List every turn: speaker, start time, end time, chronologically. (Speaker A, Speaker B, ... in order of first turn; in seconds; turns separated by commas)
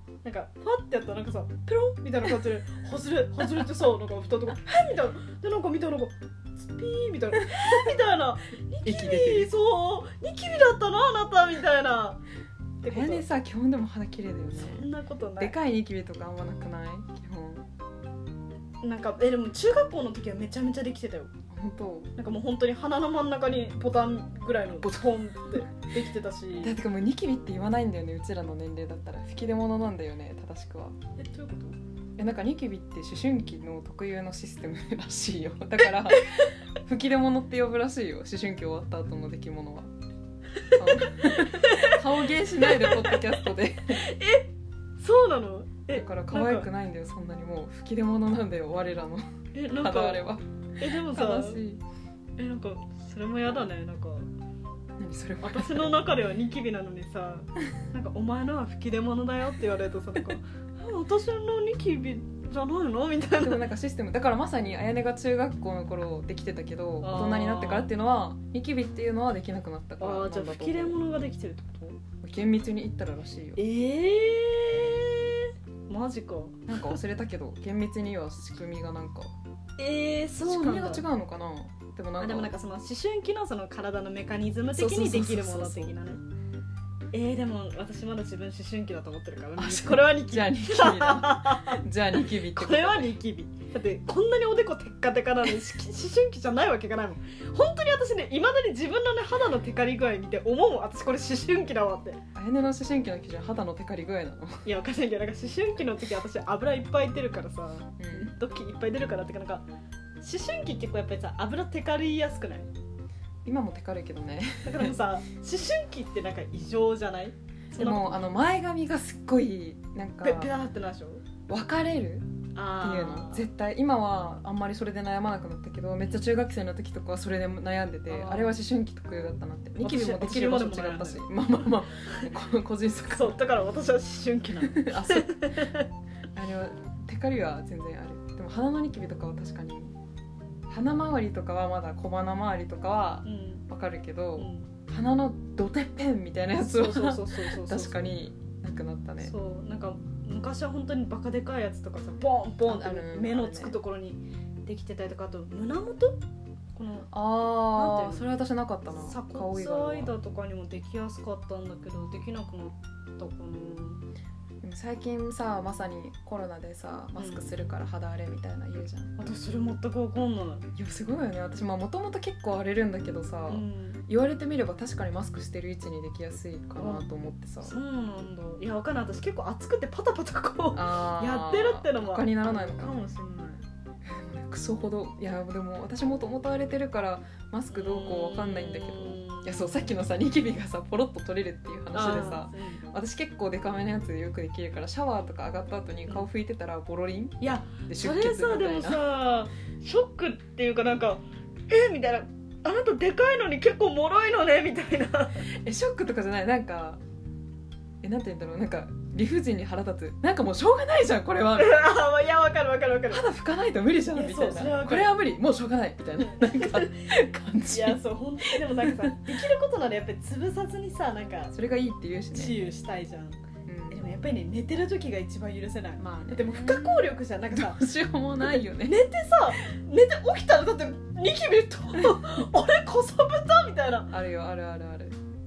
Speaker A: 0.2-12.2, Speaker B: 8.8-9.5, Speaker A: 12.8-13.2, Speaker B: 12.9-14.9, Speaker A: 14.6-15.5, Speaker B: 15.4-17.7, Speaker A: 18.8-21.3, Speaker B: 21.5-22.1, Speaker A: 22.1-26.8, Speaker B: 24.8-25.6, Speaker B: 26.6-30.9, Speaker A: 31.2-31.8, Speaker B: 32.2-39.9, Speaker A: 36.1-36.5, Speaker A: 40.6-42.0, Speaker B: 40.7-44.0, Speaker A: 42.6-43.2, Speaker A: 43.9-46.7, Speaker B: 45.9-51.8, Speaker A: 49.5-50.2, Speaker A: 50.8-51.6, Speaker A: 52.4-54.2, Speaker B: 55.0-56.0, Speaker A: 55.4-63.6, Speaker B: 63.4-71.0, Speaker A: 67.0-67.9, Speaker A: 70.0-72.0, Speaker B: 72.2-73.6, Speaker A: 73.5-77.0, Speaker B: 76.7-79.3, Speaker A: 79.8-81.0, Speaker B: 80.4-82.5, Speaker A: 82.2-86.2, Speaker B: 84.7-86.0, Speaker A: 87.1-102.2, Speaker B: 89.6-93.1, Speaker B: 102.3-104.6, Speaker A: 104.6-109.6, Speaker B: 108.0-108.3, Speaker A: 110.2-112.7, Speaker B: 113.4-114.9, Speaker A: 114.6-118.2, Speaker B: 117.7-120.5, Speaker A: 120.2-121.2, Speaker B: 121.5-122.3, Speaker A: 122.5-123.5, Speaker B: 122.8-133.4, Speaker A: 128.1-128.6, Speaker A: 129.8-131.3, Speaker A: 132.0-132.3, Speaker A: 133.1-135.9, Speaker B: 134.5-135.6, Speaker B: 136.3-139.9, Speaker B: 140.7-149.3, Speaker A: 143.2-143.6, Speaker A: 144.4-144.7, Speaker A: 146.6-148.1, Speaker A: 149.2-156.2, Speaker B: 152.6-153.8, Speaker A: 156.7-158.3, Speaker B: 157.1-160.1, Speaker A: 158.9-164.0, Speaker B: 164.6-169.1, Speaker A: 167.2-167.4, Speaker A: 169.2-170.7, Speaker B: 170.7-177.8, Speaker A: 173.5-174.0, Speaker A: 176.8-177.0, Speaker A: 177.6-183.6, Speaker B: 180.7-183.0, Speaker B: 184.0-199.0, Speaker A: 187.7-189.6, Speaker A: 191.9-192.8, Speaker A: 197.4-205.4, Speaker B: 205.6-207.0, Speaker B: 208.0-211.9, Speaker A: 211.6-213.2, Speaker B: 213.1-219.2, Speaker A: 214.1-215.1, Speaker A: 216.2-217.1, Speaker A: 217.7-221.5, Speaker B: 221.5-222.6, Speaker A: 222.3-227.8, Speaker B: 223.7-224.0, Speaker B: 226.0-229.0, Speaker A: 228.4-234.1, Speaker B: 234.1-235.2